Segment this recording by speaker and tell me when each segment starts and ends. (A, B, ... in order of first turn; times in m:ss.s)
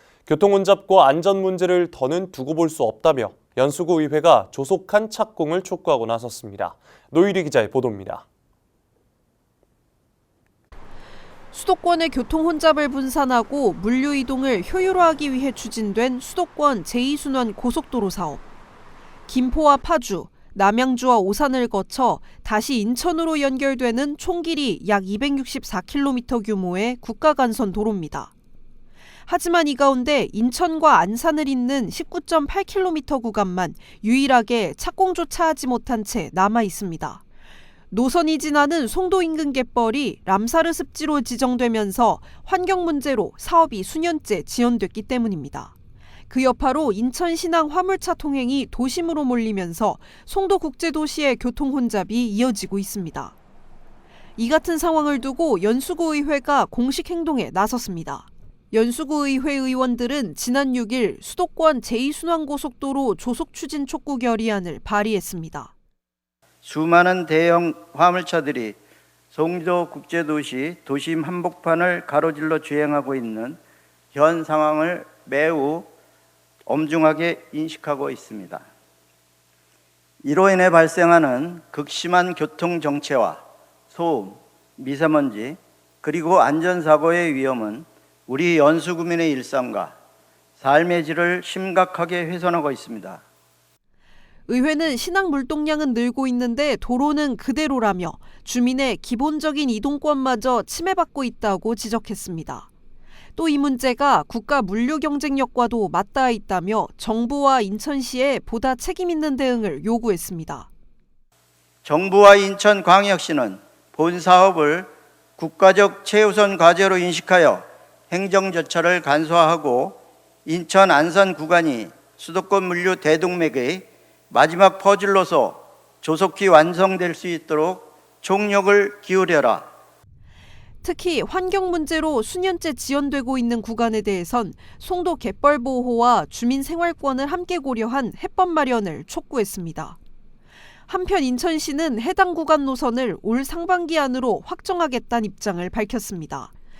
0:00.3-0:08.2 A
0:11.5-0:18.4 B
0:19.3-0:28.3 B
0:29.3-0:37.2 B
0:37.9-0:45.7 B
0:46.3-0:53.4 B
0:54.4-1:05.7 B
1:06.6-1:08.8 C
1:09.3-1:13.6 C
1:14.1-1:15.9 C
1:16.7-1:18.7 C
1:20.2-1:30.0 C
1:30.6-1:33.2 C
1:34.5-1:42.7 B
1:43.4-1:50.7 B
1:51.8-2:09.7 C
2:10.8-2:20.0 B
2:20.9-2:26.5 B